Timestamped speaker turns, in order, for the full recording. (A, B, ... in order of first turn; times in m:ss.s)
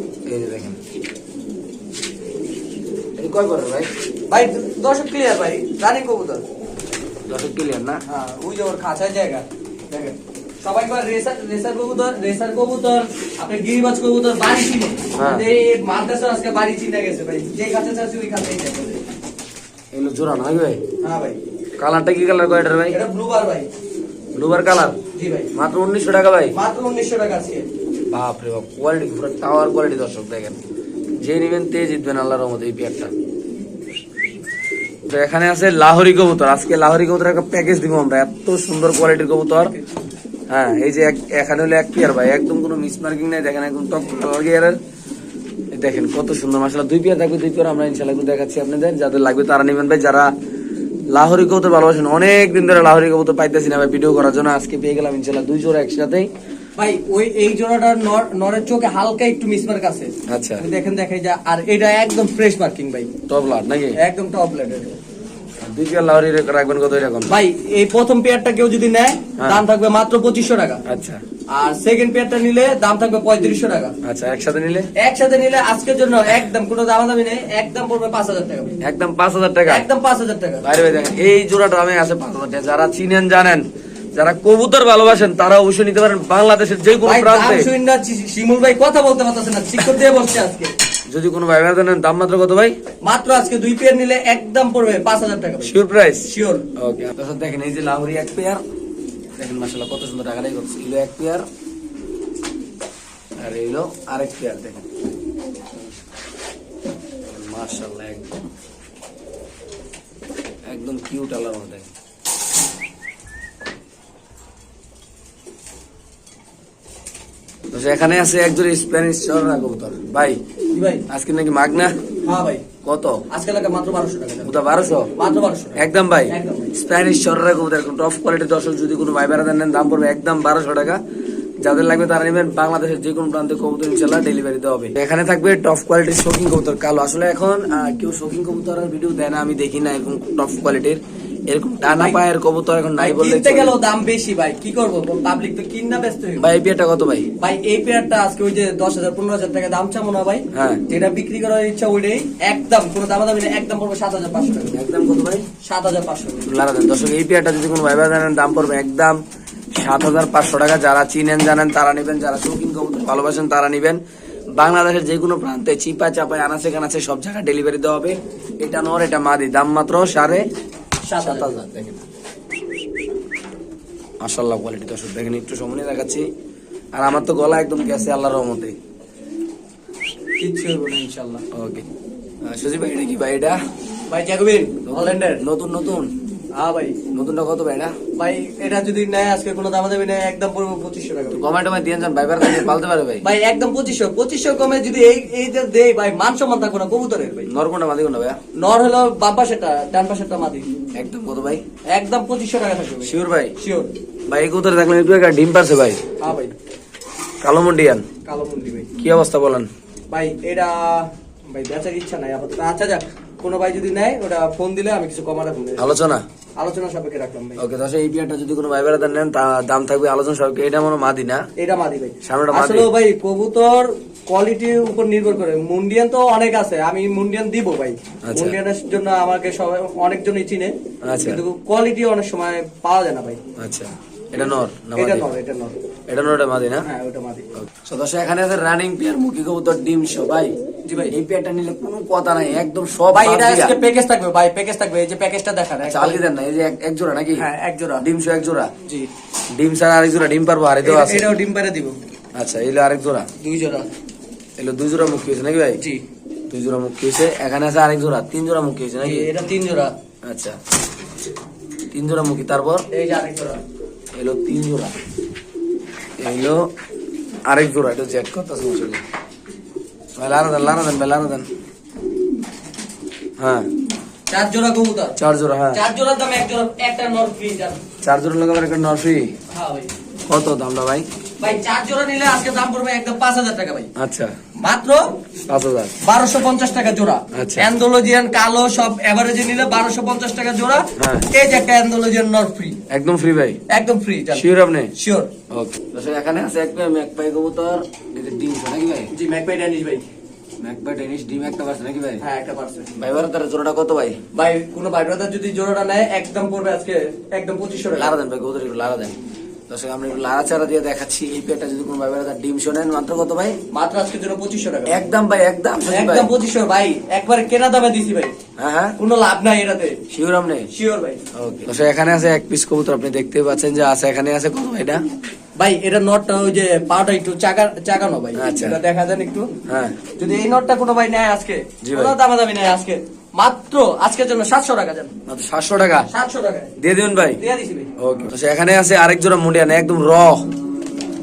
0:00.3-0:00.8 A
0:03.2-0:03.9 A
0:04.3-0:06.4 B
0:07.3-0:08.0 A
0:08.1-0:19.0 B
0:15.2-0:15.5 A
0:19.9-0:20.8 A
0:21.0-0:21.4 B
0:21.8-0:23.0 A
0:22.9-0:23.7 B
0:24.4-0:25.0 A
0:25.1-0:25.5 B
0:25.6-0:26.5 A
0:26.5-0:27.7 B
0:28.1-0:30.6 A
0:31.2-0:33.1 A
0:35.1-0:39.7 A
0:40.5-0:44.8 A
0:45.7-0:50.3 A
0:51.1-0:56.3 A
0:56.8-1:03.1 B
1:00.3-1:00.6 A
1:03.3-1:04.0 A
1:04.0-1:05.0 B
1:05.6-1:07.3 A
1:07.3-1:10.8 B
1:10.9-1:11.2 A
1:11.5-1:13.9 B
1:14.0-1:14.9 A
1:15.0-1:18.8 B
1:18.8-1:19.9 A
1:19.7-1:20.7 B
1:20.6-1:27.7 A
1:27.0-1:30.7 B
1:31.1-1:32.8 A
1:33.0-1:35.7 B
1:35.6-1:38.6 A
1:36.3-1:36.7 B
1:39.4-1:41.4 A
1:43.4-1:44.8 A
1:47.3-1:48.5 A
1:50.7-1:51.9 A
1:57.7-2:00.4 A
2:00.7-2:01.0 B
2:01.1-2:01.9 A
2:02.2-2:02.7 B
2:02.8-2:03.2 A
2:03.3-2:04.6 B
2:04.4-2:05.1 A
2:05.2-2:06.7 B
2:05.8-2:11.0 A
2:11.6-2:23.8 A
2:21.8-2:22.2 B
2:23.0-2:26.5 B
2:26.4-2:27.3 A
2:27.4-2:34.8 B
2:30.5-2:30.8 A
2:34.7-2:35.5 A
2:35.6-2:36.5 B
2:36.5-2:39.2 A
2:39.8-2:44.0 A
2:44.6-2:50.4 A
2:51.0-2:51.6 B
2:51.2-2:52.0 A
2:54.2-2:56.2 A
2:56.9-2:58.8 A
3:00.4-3:01.4 B
3:01.5-3:01.8 A
3:02.4-3:03.6 A
3:04.1-3:05.4 B
3:04.9-3:06.1 A
3:06.6-3:07.0 B
3:07.1-3:07.9 A
3:08.2-3:11.4 B
3:11.3-3:13.2 A
3:13.2-3:17.5 B
3:17.5-3:18.4 A
3:18.6-3:20.7 B
3:21.0-3:21.6 A
3:21.9-3:23.9 B
3:23.0-3:23.5 A
3:24.3-3:26.0 A
3:26.2-3:26.5 B
3:27.4-3:28.1 A
3:28.2-3:28.9 B
3:29.0-3:29.7 A
3:30.1-3:35.9 B
3:35.8-3:36.2 A
3:36.6-3:37.6 B
3:37.6-3:41.4 A
3:41.6-3:53.4 B
3:42.2-3:42.9 A
3:48.3-3:48.6 A
3:51.0-3:51.4 A
3:53.6-3:55.3 A
3:54.4-3:55.8 B
3:56.1-3:56.9 A
3:56.8-3:57.5 B
3:57.6-4:00.5 A
4:00.9-4:01.1 B
4:01.1-4:03.8 A
4:03.1-4:06.2 B
4:05.8-4:07.5 A
4:07.4-4:08.0 B
4:08.0-4:08.7 A
4:09.5-4:11.3 A
4:10.8-4:12.0 B
4:12.4-4:13.3 A
4:13.4-4:13.9 B
4:14.6-4:15.8 A
4:16.5-4:19.3 A
4:19.0-4:19.9 B
4:20.2-4:20.6 A
4:21.9-4:22.8 A
4:22.9-4:23.6 B
4:24.1-4:24.9 A
4:26.2-4:26.6 A
4:27.5-4:29.0 A
4:30.2-4:31.5 A
4:33.4-4:33.7 A
4:34.3-4:35.2 B
4:35.2-4:35.8 A
4:35.7-4:37.8 B
4:38.0-4:39.3 A
4:39.5-4:39.9 B
4:40.3-4:41.1 A
4:41.4-4:43.9 B
4:44.0-4:44.3 A
4:44.6-4:45.1 B
4:45.5-4:45.9 A
4:46.0-4:52.8 B
4:47.3-4:47.7 A
4:51.0-4:51.3 A
4:52.9-4:53.6 A
4:53.7-4:54.4 B
4:54.3-4:54.9 A
4:55.0-4:55.3 B
4:55.5-4:59.1 A
4:59.1-5:00.0 B
5:00.6-5:02.2 A
5:02.2-5:02.9 B
5:03.0-5:04.2 A
5:04.3-5:08.1 B
5:08.0-5:09.2 A
5:09.7-5:13.6 A
5:13.7-5:15.0 B
5:14.9-5:16.3 A
5:15.9-5:18.3 B
5:18.6-5:19.0 A
5:19.0-5:20.0 B
5:20.1-5:20.7 A
5:20.7-5:21.2 B
5:21.4-5:25.0 A
5:25.6-5:29.5 B
5:28.4-5:28.8 A
5:29.7-5:30.0 A
5:30.2-5:35.1 B
5:31.8-5:32.2 A
5:35.3-5:36.1 A
5:36.1-5:36.8 B
5:36.8-5:37.4 A
5:37.4-5:37.9 B
5:38.0-5:40.5 A